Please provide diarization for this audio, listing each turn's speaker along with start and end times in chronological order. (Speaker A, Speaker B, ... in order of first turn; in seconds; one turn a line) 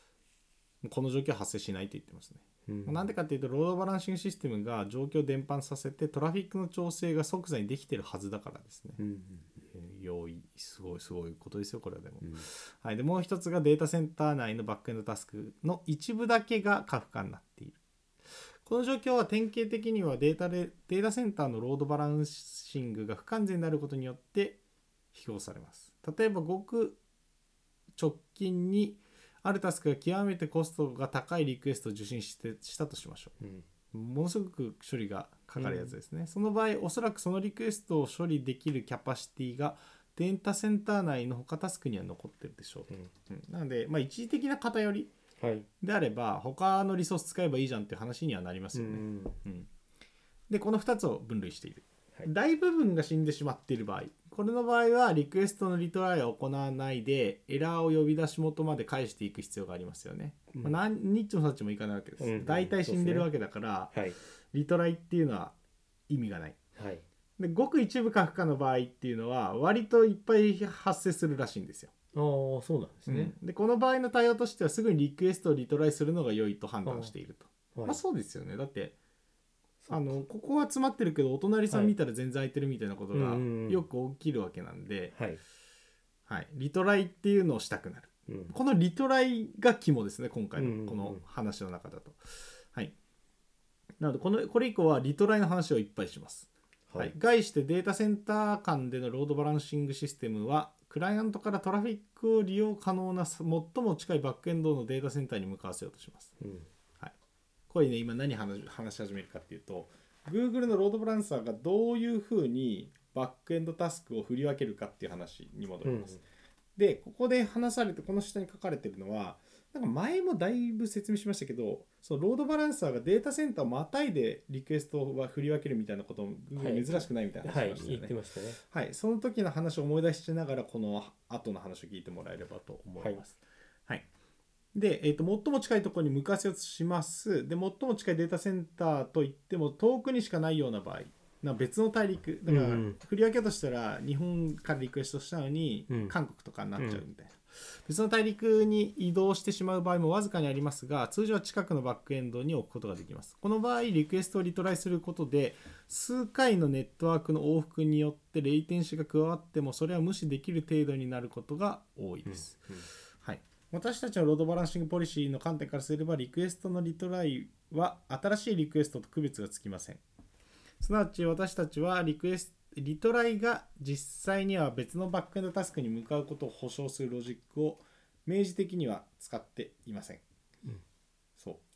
Speaker A: 0.8-9.0
Speaker B: 2.6-3.1
Speaker B: 9.0-9.6
Speaker A: 9.7-17.8
Speaker B: 12.2-12.5
Speaker A: 18.6-24.6
Speaker A: 25.1-27.0
Speaker A: 27.9-33.3
Speaker B: 33.4-33.6
Speaker A: 33.9-45.1
Speaker B: 35.6-36.0
Speaker B: 45.4-45.7
Speaker A: 45.8-49.7
Speaker B: 48.7-49.4
Speaker A: 50.5-63.9
Speaker B: 60.5-60.8
Speaker B: 62.2-63.3
Speaker B: 63.9-64.2
Speaker A: 64.5-65.5
Speaker A: 66.1-66.6
Speaker B: 66.7-67.0
Speaker A: 67.4-71.9
Speaker B: 72.1-73.3
Speaker A: 73.1-79.0
Speaker B: 76.8-77.1
Speaker B: 77.7-78.0
Speaker B: 79.8-80.2
Speaker A: 79.9-85.1
Speaker B: 81.7-81.9
Speaker B: 83.1-83.8
Speaker B: 85.1-85.4
Speaker A: 86.3-92.9
Speaker B: 88.3-88.5
Speaker B: 90.5-91.2
Speaker A: 94.0-106.3
Speaker B: 106.4-106.7
Speaker A: 107.7-116.2
Speaker B: 115.8-116.2
Speaker A: 116.8-128.1
Speaker B: 126.5-128.6
Speaker A: 128.7-134.1
Speaker A: 134.7-162.7
Speaker B: 142.4-143.0
Speaker B: 145.9-146.2
Speaker B: 146.8-147.0
Speaker B: 162.2-162.9
Speaker A: 163.2-170.0
Speaker A: 170.8-180.2